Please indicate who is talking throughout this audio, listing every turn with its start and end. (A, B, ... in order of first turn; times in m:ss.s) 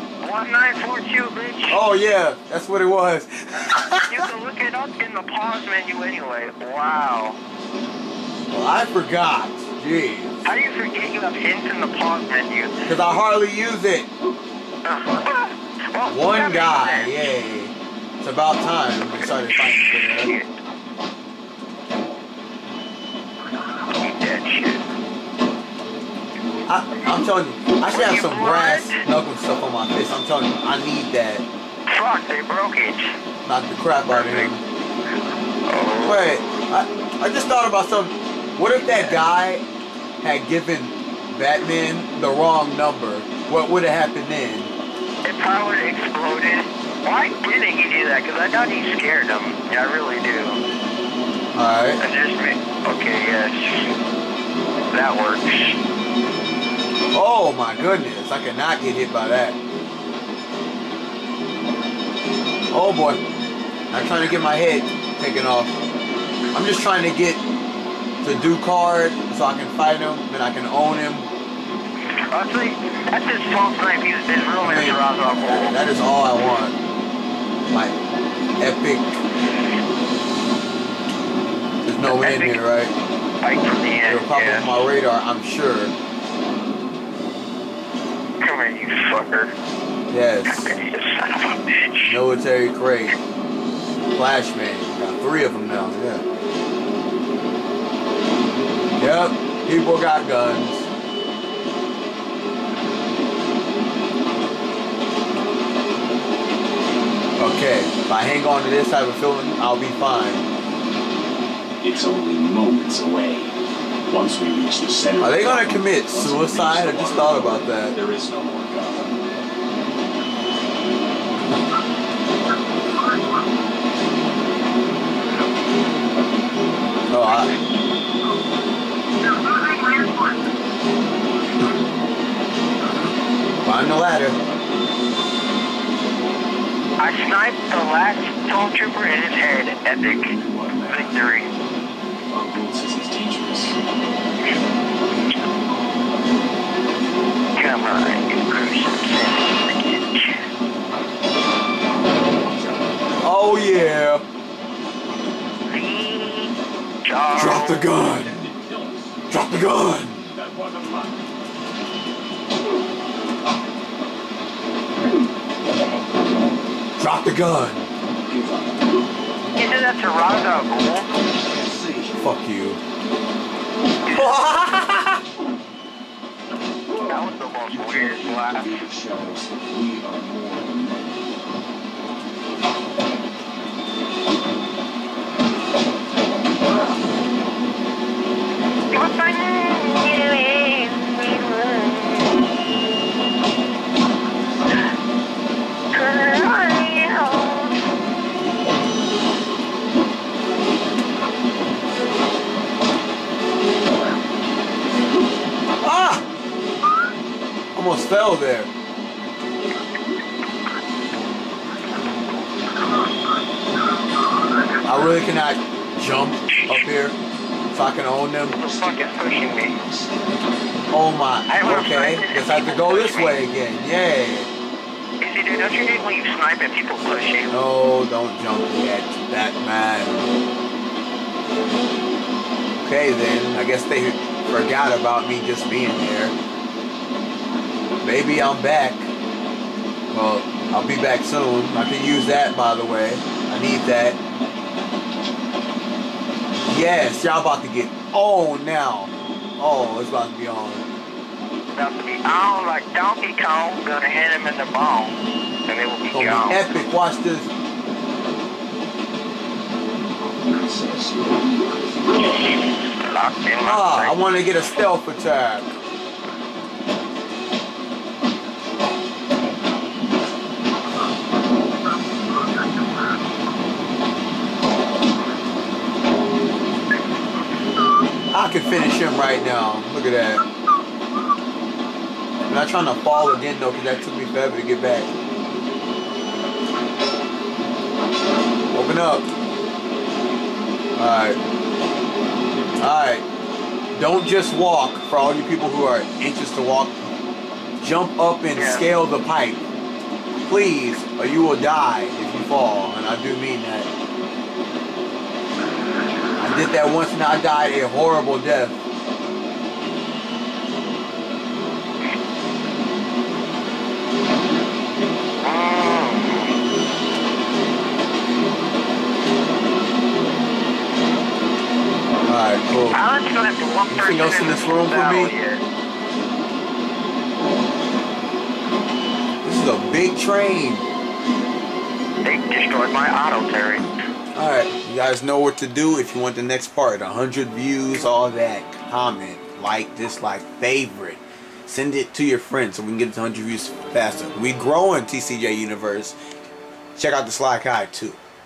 0:00.2-0:01.8 A
0:01.7-0:04.3 B
0:04.0-0:07.4 A
0:08.5-0:10.4 B
0:10.4-0:12.9 A
0:12.8-0:14.1 B
0:14.8-0:17.1 A
0:16.0-0:20.3 B
0:19.5-0:20.5 A
0:23.9-0:24.8 A
0:26.7-0:31.4 B
0:27.9-0:29.0 A
0:31.9-0:33.1 A
0:33.4-0:34.6 B
0:34.1-0:34.5 A
0:35.6-0:36.2 A
0:36.0-0:39.6 B
0:38.8-0:39.2 A
0:40.2-0:44.7 B
0:45.2-0:50.6 A
0:51.5-0:52.0 B
0:52.0-0:53.9 A
0:54.9-0:55.8 A
0:57.1-0:59.6 B
1:02.7-1:03.2 B
1:03.9-1:05.8 B
1:06.5-1:07.4 B
1:08.2-1:11.3 B
1:12.3-1:15.8 A
1:14.6-1:16.7 B
1:17.7-1:17.9 B
1:18.6-1:19.2 B
1:21.8-1:22.9 B
1:22.0-1:22.6 A
1:23.4-1:24.8 A
1:24.1-1:25.9 B
1:28.4-1:29.5 A
1:30.1-1:30.7 B
1:30.4-1:32.2 A
1:32.0-1:33.1 B
1:34.1-1:36.2 B
1:39.0-1:40.9 B
1:47.4-1:50.4 B
1:51.8-1:53.6 C
1:54.1-1:59.1 C
1:55.2-1:58.0 B
2:07.1-2:07.5 B
2:09.8-2:10.1 A
2:13.6-2:14.4 B
2:17.0-2:20.3 A
2:19.9-2:21.2 C
2:20.9-2:21.5 A
2:22.3-2:23.8 C
2:27.6-2:30.3 A
2:32.4-2:33.2 C
2:33.2-2:34.2 B
2:35.7-2:37.9 A
2:37.3-2:38.4 B
2:38.1-2:39.2 C
2:39.3-2:40.2 B
2:40.3-2:41.3 C
2:47.0-2:47.9 B
2:48.2-2:48.9 C
2:49.5-2:51.1 A
2:51.4-2:52.2 C
2:52.2-2:52.8 B
2:54.1-2:55.2 B
2:57.0-2:58.8 A
2:57.6-3:01.4 C
3:08.9-3:12.5 A
3:15.9-3:17.8 A
3:25.8-3:26.2 B
3:27.7-3:28.7 B
3:34.8-3:37.2 B
3:36.6-3:36.8 A
3:37.7-3:38.6 B
3:38.5-3:39.8 A
3:38.6-3:40.3 C
3:40.9-3:44.5 B
3:41.5-3:43.4 A
3:45.2-3:47.6 A
3:47.5-3:50.3 B
3:52.8-3:56.3 B
3:58.0-3:59.1 B
4:00.1-4:04.2 B
4:06.6-4:10.8 B
4:11.7-4:16.7 A
4:16.1-4:17.5 B
4:20.0-4:22.0 C
4:22.2-4:24.2 A
4:23.6-4:25.7 B
4:38.3-4:40.4 B
4:42.4-4:45.1 B
4:48.7-4:49.3 B
4:51.0-4:51.4 B
4:52.8-4:53.2 B
4:53.9-4:57.1 B
4:57.8-4:59.7 B
4:58.5-4:58.9 A
5:00.4-5:03.9 B
5:06.4-5:08.8 B
5:15.4-5:16.5 A
5:22.2-5:23.0 B
5:22.9-5:25.6 A
5:23.9-5:25.3 B
5:29.4-5:30.8 B
5:32.2-5:33.8 A
5:34.3-5:46.2 B
5:47.0-5:48.2 B